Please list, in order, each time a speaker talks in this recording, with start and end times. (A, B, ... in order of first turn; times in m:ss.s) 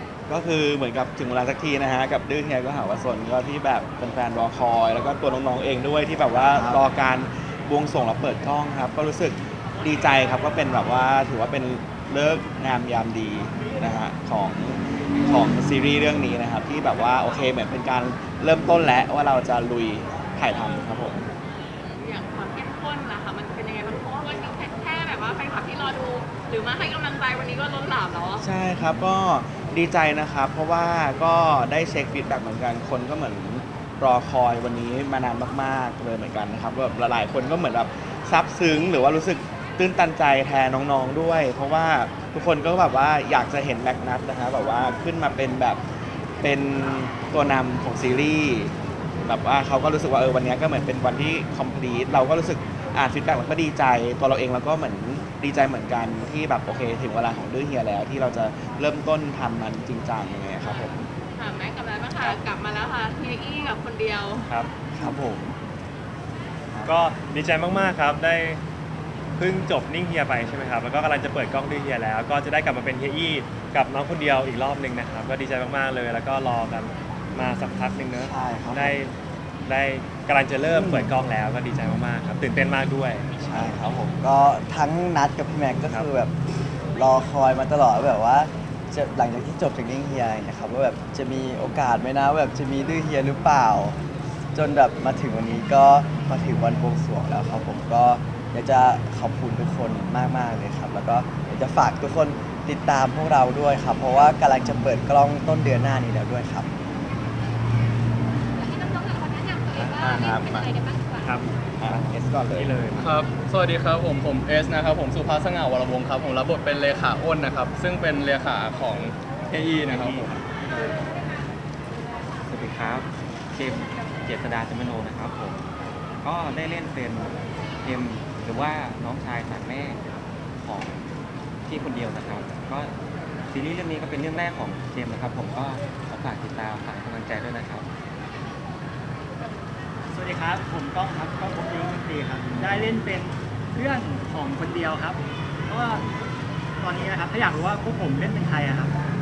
0:00.3-0:21.2 A
0:06.4-0:06.8 B
0:21.8-0:28.4 C
0:28.4-0:45.8 A
0:46.4-1:01.1 A
1:00.6-1:04.4 C
1:04.9-1:05.5 B
1:06.8-1:08.6 D
1:09.4-1:19.1 D
1:18.2-1:19.0 B
1:19.6-1:23.7 D
1:20.7-1:21.1 B
1:23.4-1:26.3 B
1:26.9-1:34.0 B
1:34.5-1:46.7 B
1:48.6-1:51.4 E
1:49.7-1:50.7 A
1:51.2-1:53.2 D
1:51.8-1:52.7 A
1:53.0-2:00.4 F
1:59.8-2:00.4 D
2:02.5-2:05.6 G
2:06.2-2:10.0 G
2:10.6-2:11.0 G
2:11.6-2:12.9 G
2:13.5-2:17.8 G
2:20.1-2:26.1 H
2:26.8-2:28.9 H